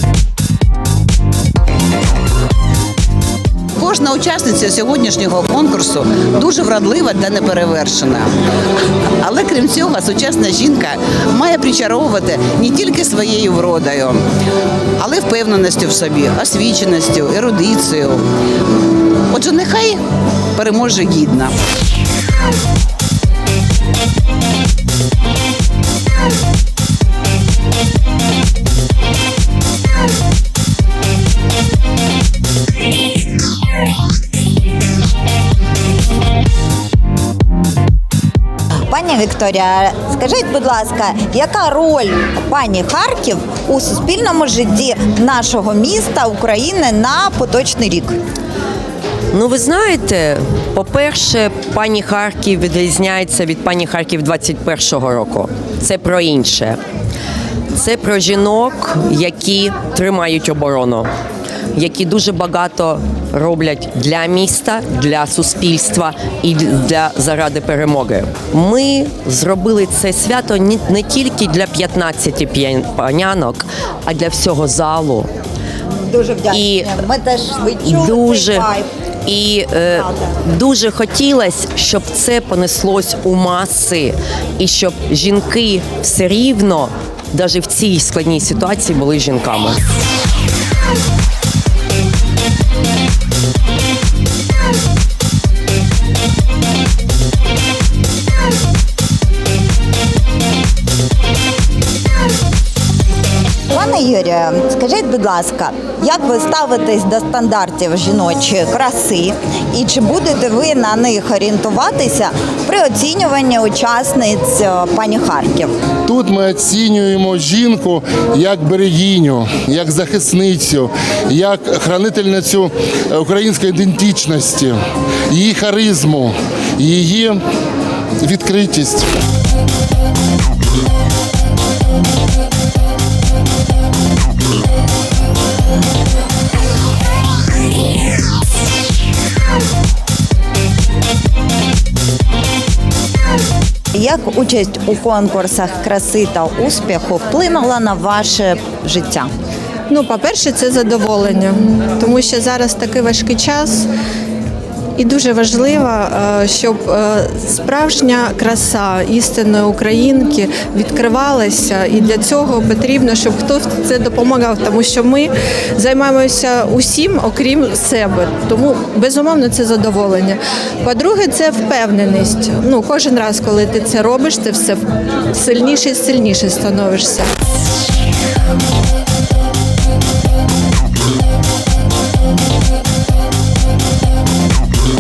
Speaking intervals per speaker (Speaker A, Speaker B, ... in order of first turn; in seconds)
Speaker A: 3.8-8.3, 9.2-14.2, 15.0-18.2, 19.3-20.0, 20.6-21.5
Speaker B: 38.9-48.2, 76.0-78.9, 80.0-80.2, 103.7-115.7, 143.9-149.3
Speaker C: 49.3-56.8, 57.7-61.1, 61.7-75.3, 76.5-77.0, 77.8-78.7, 79.3-89.8
Speaker D: 116.1-127.4, 128.2-129.1
Speaker E: 149.9-153.9, 155.0-177.3